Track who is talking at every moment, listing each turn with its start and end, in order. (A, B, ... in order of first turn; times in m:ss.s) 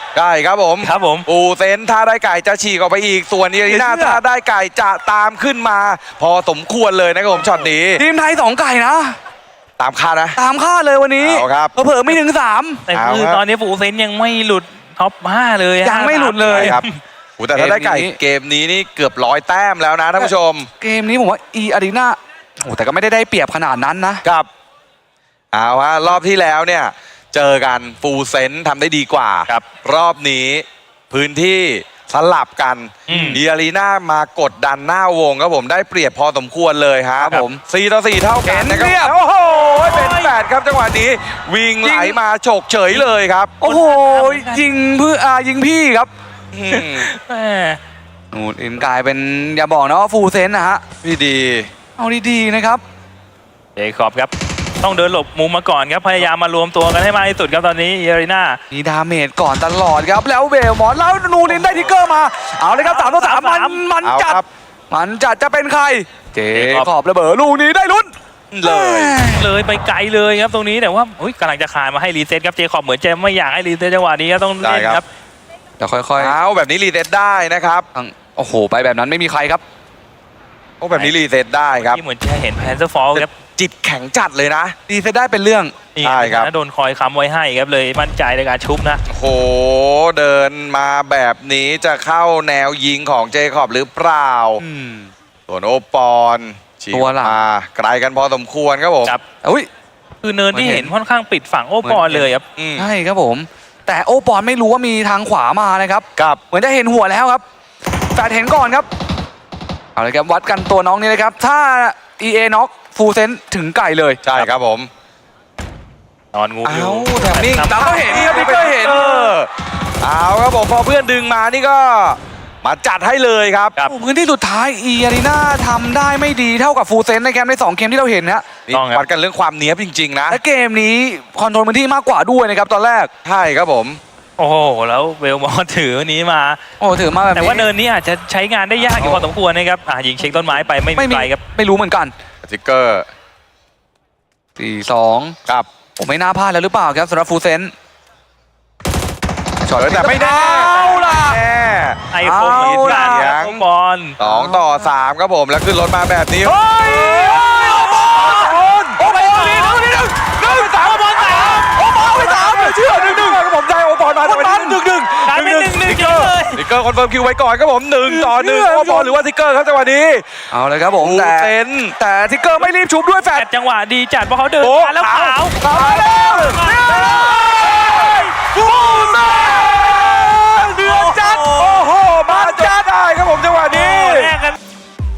0:00.2-0:08.0 A
0:00.8-0:01.3 B
0:03.6-0:04.2 C
0:08.0-0:09.2 C
0:09.8-0:10.4 A
0:10.4-0:12.8 C
0:11.2-0:11.7 A
0:12.9-0:17.0 B
0:12.9-0:13.4 A
0:15.8-0:16.8 C
0:16.5-0:16.8 A
0:17.4-0:20.7 A
0:17.6-0:18.2 C
0:20.2-0:24.2 C
0:25.5-0:43.6 A
0:33.1-0:33.4 B
0:33.1-0:33.4 C
0:37.2-0:37.6 C
0:38.4-0:40.3 C
0:41.8-0:42.2 C
0:43.6-0:44.6 B
0:43.6-0:46.1 C
0:46.5-0:47.1 A
0:46.7-0:47.8 B
0:48.3-0:50.8 C
0:51.0-0:51.7 A
0:52.0-0:52.8 C
0:53.8-0:58.6 B
0:58.7-1:08.1 C
1:01.5-1:01.9 B
1:02.7-1:03.8 B
1:04.0-1:04.5 A
1:06.5-1:06.9 B
1:08.5-1:09.2 A
1:08.6-1:09.5 C
1:09.3-1:15.0 B
1:14.6-1:15.0 A
1:15.8-1:16.4 C
1:16.2-1:17.9 A
1:18.0-1:19.6 C
1:20.8-1:22.0 A
1:21.8-1:23.3 B
1:23.2-1:24.8 A
1:24.9-1:25.8 C
1:26.0-1:29.0 B
1:26.0-1:26.5 A
1:29.1-1:34.6 A
1:34.6-1:35.1 C
1:35.5-1:39.2 A
1:36.9-1:37.4 C
1:39.4-1:39.7 C
1:40.2-1:42.4 B
1:40.5-1:40.9 C
1:41.8-1:47.4 C
1:42.6-1:42.9 A
1:48.1-1:48.9 C
1:50.0-1:54.4 C
1:54.2-1:54.9 A
1:56.3-1:58.5 B
1:56.6-1:59.5 A
1:57.7-1:59.3 C
2:00.0-2:03.8 A
2:03.9-2:08.5 C
2:08.7-2:10.4 A
2:08.7-2:09.0 B
2:10.3-2:13.1 C
2:13.2-2:14.0 A
2:14.4-2:16.6 B
2:16.8-2:17.7 C
2:17.3-2:21.4 B
2:18.8-2:19.2 A
2:20.3-2:20.7 A
2:21.0-2:22.1 C
2:22.4-2:23.1 A
2:24.6-2:25.4 C
2:26.0-2:27.7 C
2:29.6-2:31.4 C
2:29.8-2:33.6 A
2:32.1-2:34.2 B
2:32.2-2:33.3 C
2:34.2-2:39.0 A
2:34.2-2:34.7 C
2:36.4-2:43.4 C
2:39.0-2:40.0 B
2:40.2-2:50.3 A
2:40.6-2:41.6 B
2:44.2-2:44.8 C
2:45.3-2:46.6 B
2:48.1-2:49.2 C
2:50.5-2:53.5 C
2:51.0-2:52.0 A
2:53.4-2:55.6 B
2:54.6-3:04.4 A
2:55.6-3:02.9 C
2:56.6-2:57.3 B
3:00.9-3:01.8 B
3:03.7-3:04.6 B